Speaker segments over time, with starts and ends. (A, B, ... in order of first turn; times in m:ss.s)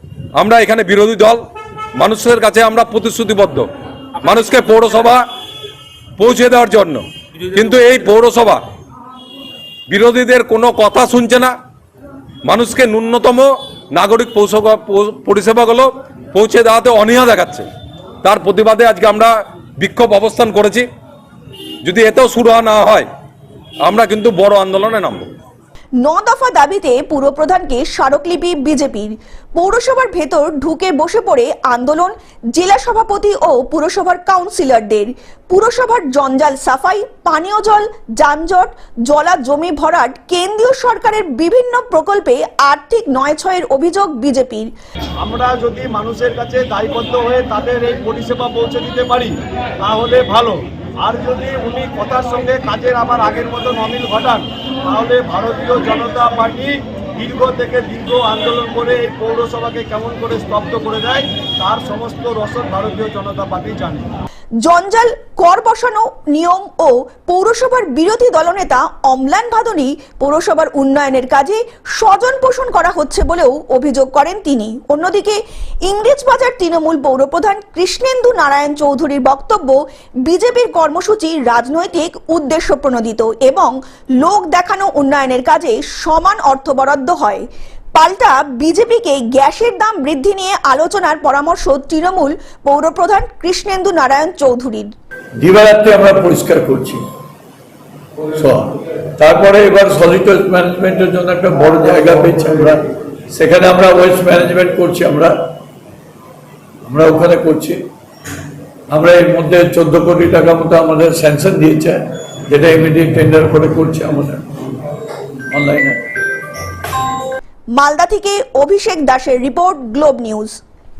0:00.4-0:01.4 A
0:02.0-0:03.7 A
0:04.2-0:05.2 A
0:06.2-0:08.6 A
0:09.9-0:11.5 A
0:12.4-0:17.7 A
0:18.2-0:20.9 A
0:21.8-0:23.1 A
0:23.8-0:25.3 A
0:26.0-0:44.7 B
0:45.2-1:04.1 C
1:04.6-1:34.9 B
1:35.4-1:37.0 D
1:38.2-1:45.5 D
1:46.8-1:47.8 D
1:48.9-1:54.5 D
1:55.5-1:56.0 D
1:57.8-2:00.6 B